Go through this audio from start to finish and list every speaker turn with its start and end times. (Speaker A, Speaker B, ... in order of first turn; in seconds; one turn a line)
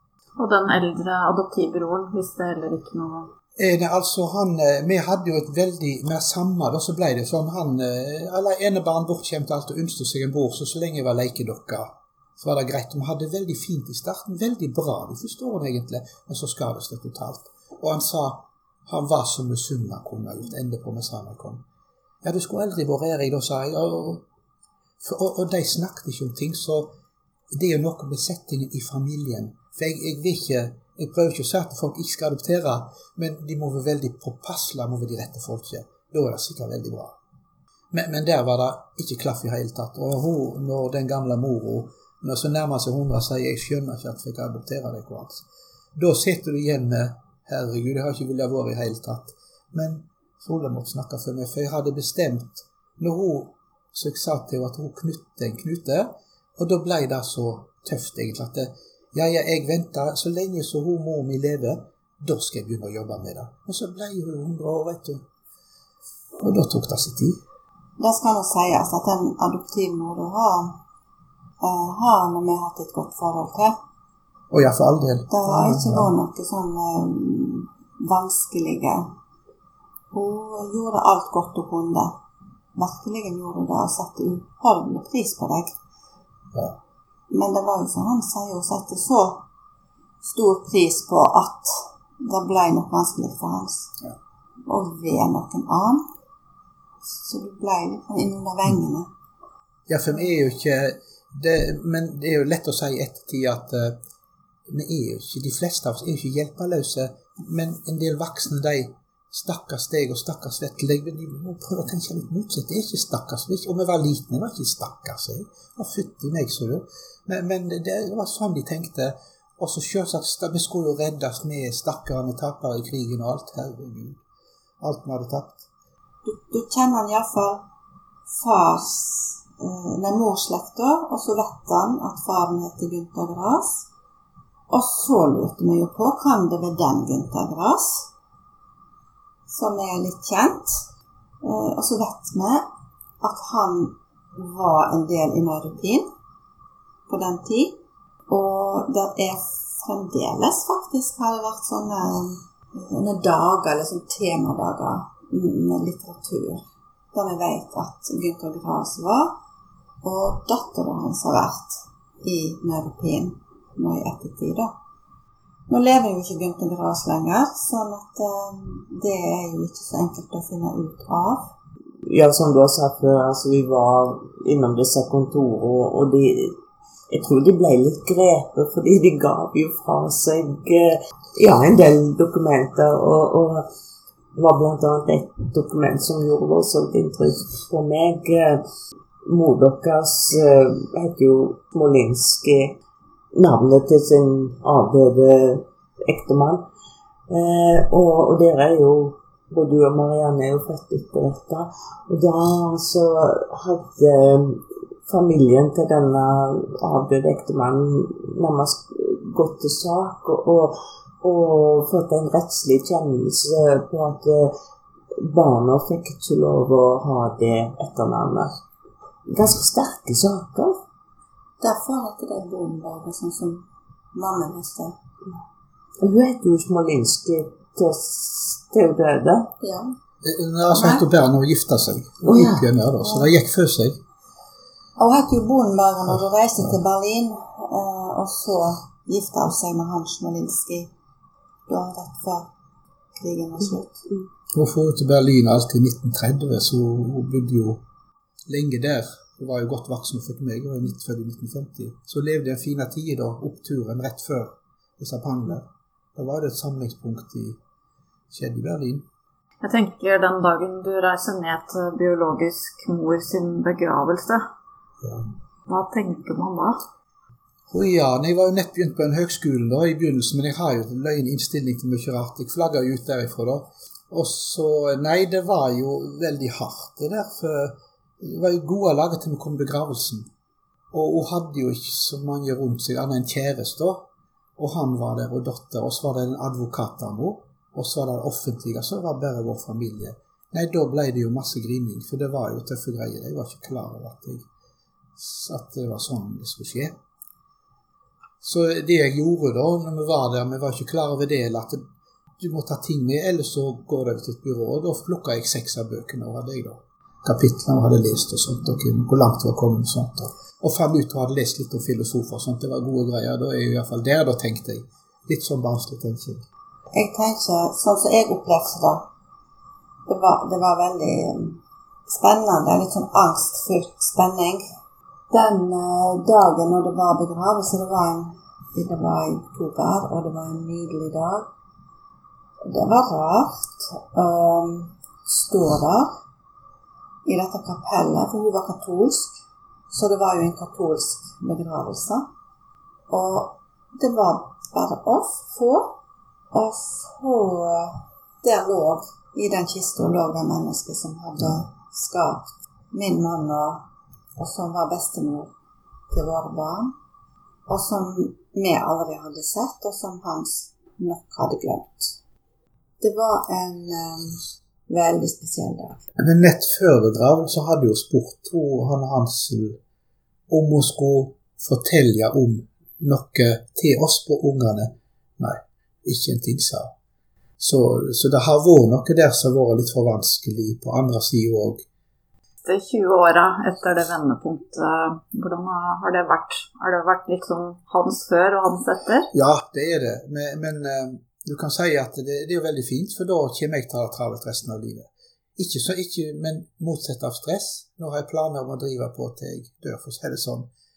Speaker A: 0.4-3.3
Speaker B: 3.6-21.6
Speaker B: 22.2-24.2
Speaker B: 25.0-26.9
Speaker B: 27.5-37.2
Speaker B: 37.9-65.2
Speaker B: 66.4-67.4
Speaker C: 68.0-70.8
Speaker C: 71.6-73.7
Speaker B: 74.5-76.1
Speaker C: 75.3-79.1
Speaker C: 80.1-82.1
Speaker C: 82.7-85.7
Speaker C: 87.3-89.4
Speaker C: 90.2-93.9
Speaker C: 94.7-96.0
Speaker C: 97.0-99.1
Speaker B: 99.9-104.0
Speaker B: 104.7-124.2
Speaker B: 124.8-125.7
Speaker C: 126.2-127.6
Speaker C: 128.3-133.9
Speaker C: 134.7-138.1
Speaker C: 139.5-140.8
Speaker C: 141.4-142.7
Speaker C: 143.2-146.1
Speaker C: 147.1-159.4
Speaker C: 160.0-164.7
Speaker C: 165.7-171.5
Speaker D: 172.1-183.7
Speaker D: 184.3-188.6
Speaker D: 189.2-192.8
Speaker D: 193.3-196.7
Speaker D: 197.3-214.6
Speaker D: 215.1-218.6
Speaker D: 219.3-220.8
Speaker C: 221.6-225.0
Speaker D: 226.0-229.5
Speaker C: 229.6-229.9
Speaker B: 230.2-234.0
Speaker C: 230.7-231.1
Speaker D: 232.3-232.7
Speaker C: 233.0-233.3
Speaker C: 235.0-240.9
Speaker C: 241.7-242.5
Speaker C: 243.2-244.1
Speaker B: 244.5-247.8
Speaker B: 248.5-257.6
Speaker B: 258.3-259.1
Speaker A: 259.6-264.4
Speaker B: 265.0-265.3
Speaker A: 265.7-266.8
Speaker B: 267.7-280.3
Speaker B: 280.9-294.4
Speaker B: 295.1-297.0
Speaker B: 298.4-301.8
Speaker B: 302.4-316.4
Speaker C: 316.9-319.1
Speaker C: 320.1-324.6
Speaker C: 325.3-331.5
Speaker C: 332.6-336.2
Speaker C: 337.2-342.3
Speaker C: 343.1-346.0
Speaker C: 346.5-353.9
Speaker C: 354.4-355.5
Speaker C: 356.1-356.9
Speaker C: 357.7-362.2
Speaker C: 363.0-366.0
Speaker B: 366.1-369.8
Speaker B: 370.5-376.9
Speaker B: 377.6-381.8
Speaker A: 382.6-389.3
Speaker B: 389.3-400.7